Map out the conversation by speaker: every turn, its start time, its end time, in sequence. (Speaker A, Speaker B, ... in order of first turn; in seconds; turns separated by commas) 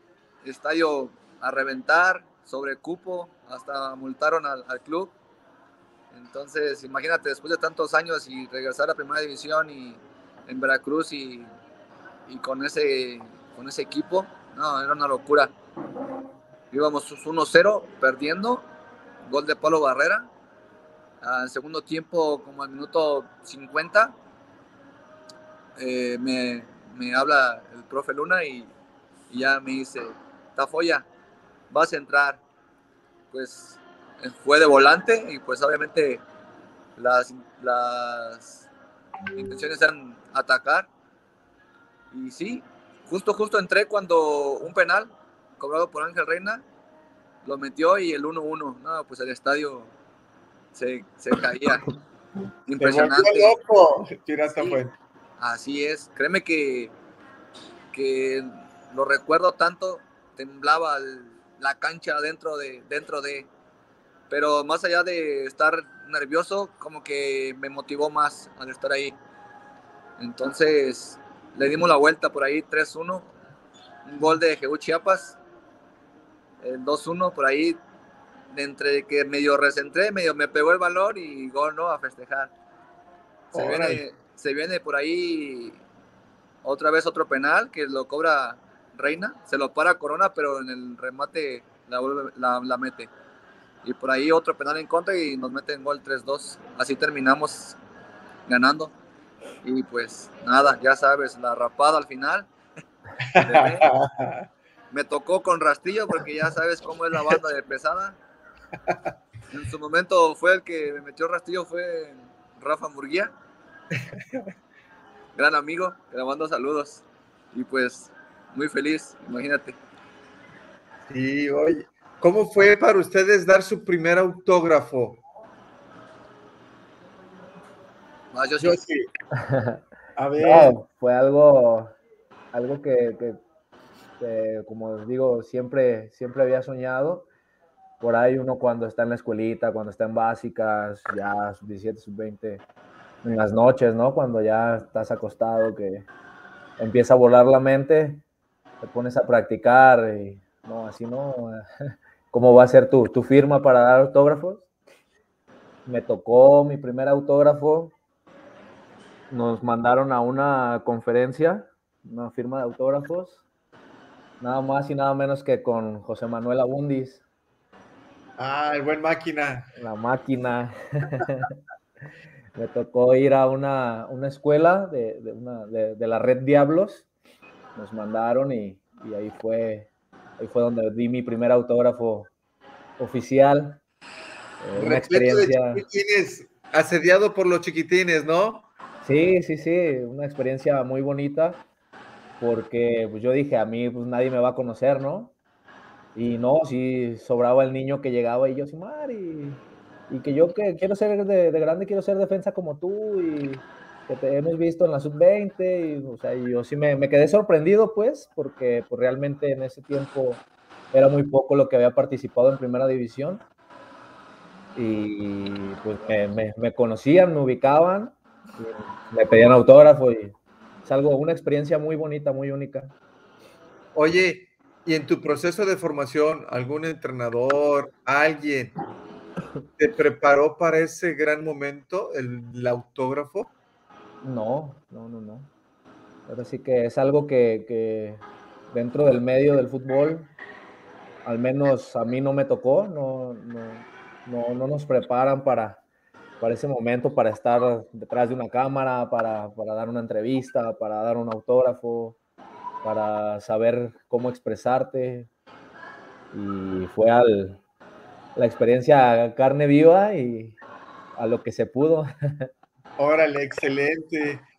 Speaker A: 0.4-5.2, Speaker A: 6.1-11.5, Speaker A: 12.3-15.5, Speaker A: 16.7-18.7, Speaker A: 19.3-20.3, Speaker A: 21.2-24.1, Speaker A: 25.8-28.7, Speaker A: 29.3-31.1, Speaker A: 31.7-32.4, Speaker A: 33.3-36.2, Speaker A: 37.0-38.7, Speaker A: 39.4-40.9, Speaker A: 42.1-46.6, Speaker A: 47.4-49.9, Speaker A: 50.7-51.9, Speaker A: 52.7-53.5, Speaker B: 52.8-54.9, Speaker A: 55.4-56.9, Speaker A: 57.9-63.5, Speaker A: 64.3-69.2, Speaker A: 70.2-73.3, Speaker A: 74.1-75.4, Speaker A: 76.6-77.8, Speaker A: 78.5-82.5, Speaker B: 83.5-84.0, Speaker A: 83.5-85.8, Speaker A: 86.6-93.1, Speaker A: 93.8-97.8, Speaker A: 98.5-98.9, Speaker A: 99.6-102.5, Speaker B: 103.2-104.5, Speaker A: 103.4-103.9, Speaker A: 104.9-108.2, Speaker A: 109.5-113.3, Speaker B: 114.1-114.4, Speaker A: 115.4-119.8, Speaker B: 121.1-125.2, Speaker A: 128.3-128.8, Speaker B: 128.6-129.1, Speaker C: 129.3-129.8, Speaker B: 130.2-130.7, Speaker C: 130.4-131.9, Speaker C: 132.5-133.4, Speaker C: 134.2-137.3, Speaker C: 138.0-142.6, Speaker C: 143.2-146.1, Speaker C: 146.8-148.2, Speaker C: 148.8-151.6, Speaker C: 152.3-154.7, Speaker C: 155.9-157.9, Speaker C: 159.3-163.4, Speaker C: 164.4-167.2, Speaker B: 168.4-169.7, Speaker C: 169.8-171.6, Speaker C: 172.6-177.1, Speaker C: 177.8-182.3, Speaker C: 183.0-183.8, Speaker C: 184.6-185.8, Speaker B: 184.8-188.7, Speaker C: 189.0-191.6, Speaker C: 192.4-195.3, Speaker C: 196.2-213.4, Speaker C: 214.8-220.3, Speaker C: 220.8-222.9, Speaker B: 223.9-228.8, Speaker B: 229.8-233.5, Speaker C: 234.2-235.5, Speaker C: 236.3-240.3, Speaker C: 241.2-245.8, Speaker C: 246.4-252.2, Speaker C: 252.8-255.3, Speaker C: 256.3-257.6, Speaker C: 258.4-260.6, Speaker C: 261.2-262.5, Speaker B: 263.0-264.4